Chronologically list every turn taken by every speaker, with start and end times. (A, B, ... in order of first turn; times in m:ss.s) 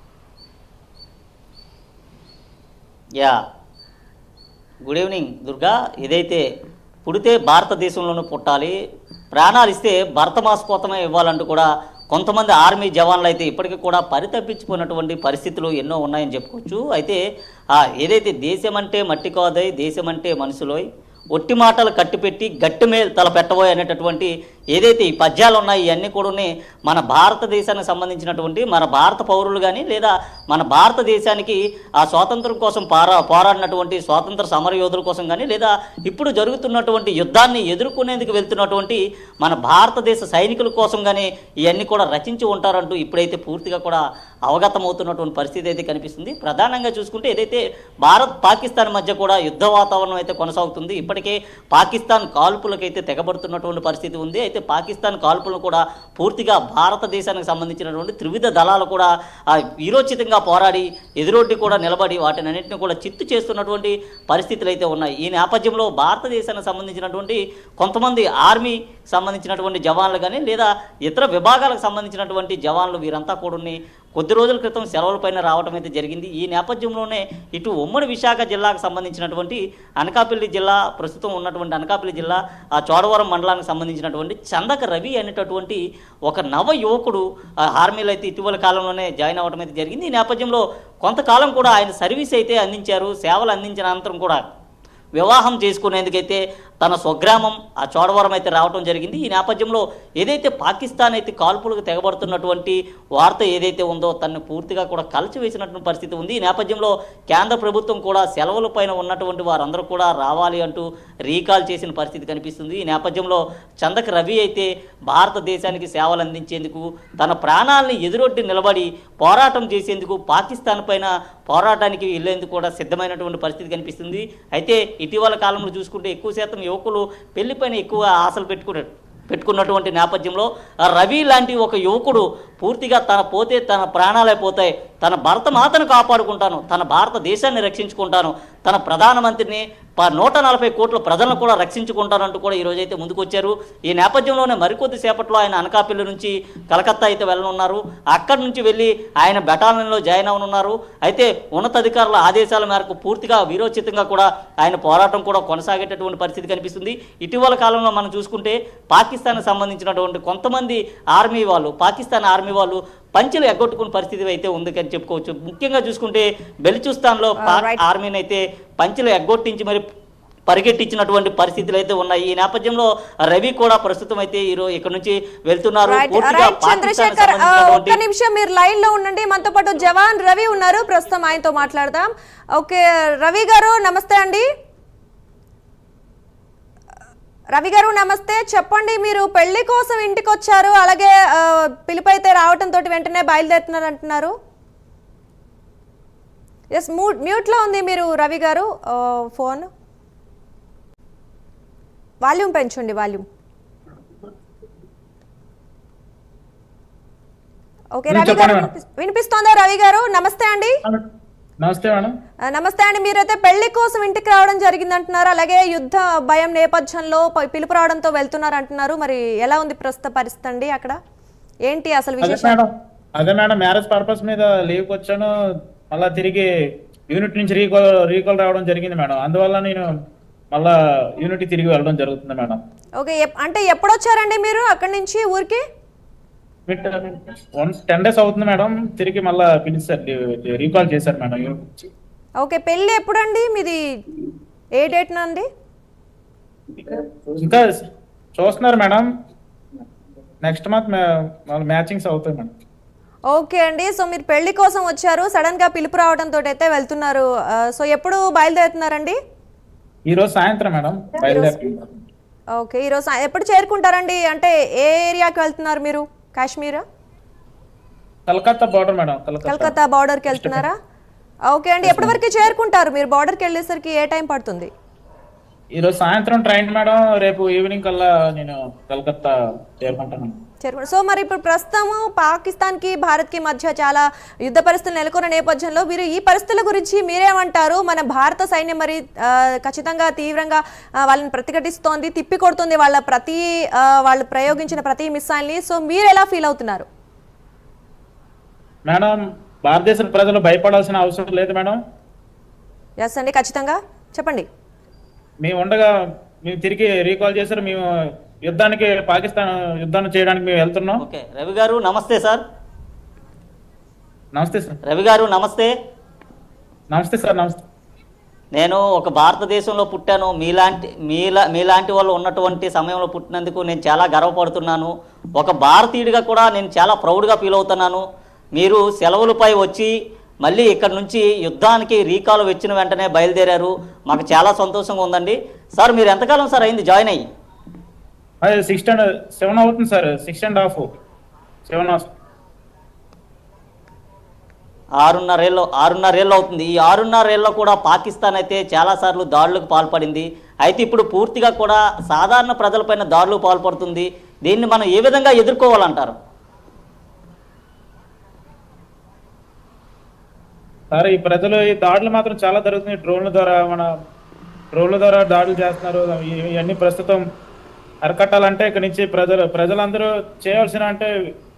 0:04.9-0:06.4 A
0:07.0-0:08.7 A
0:09.4-0:17.2 A
0:17.7-1:27.2 A
1:27.7-1:34.4 A
1:35.2-2:49.8 A
2:47.4-2:47.8 B
2:50.5-2:58.0 A
2:55.9-3:04.4 B
3:07.5-3:14.3 B
3:16.7-3:19.7 B
3:22.2-3:23.2 B
3:28.0-3:30.7 B
3:28.1-3:28.7 C
3:31.6-3:32.1 C
3:32.5-3:41.0 B
3:41.7-3:42.6 B
3:42.2-3:45.3 C
3:45.9-3:46.5 C
3:47.1-3:49.9 C
3:50.5-3:52.6 C
3:53.0-3:55.6 B
3:56.7-4:01.7 C
4:02.4-4:03.8 B
4:04.8-4:05.5 B
4:06.8-4:07.8 C
4:08.4-4:09.1 C
4:10.4-4:12.5 C
4:13.3-4:19.2 B
4:20.1-4:22.0 C
4:21.2-4:21.5 B
4:22.6-4:26.8 B
4:28.3-4:29.7 C
4:29.4-4:30.7 B
4:30.3-4:30.6 C
4:31.5-4:34.7 B
4:31.8-4:32.2 C
4:35.8-4:40.3 C
4:40.6-4:56.9 B
4:58.9-5:01.8 C
5:03.0-5:04.4 B
5:05.4-5:05.9 C
5:06.4-5:07.9 C
5:08.5-5:11.0 C
5:11.0-5:12.4 A
5:14.3-5:14.8 C
5:14.9-5:15.7 A
5:16.9-5:17.6 C
5:18.6-5:28.0 A
5:28.6-5:29.9 A
5:30.4-5:37.2 A
5:38.4-5:40.9 C
5:41.6-5:42.1 C
5:45.0-5:56.2 A
6:00.9-6:03.9 C
6:04.7-6:07.2 C
6:08.0-6:11.1 C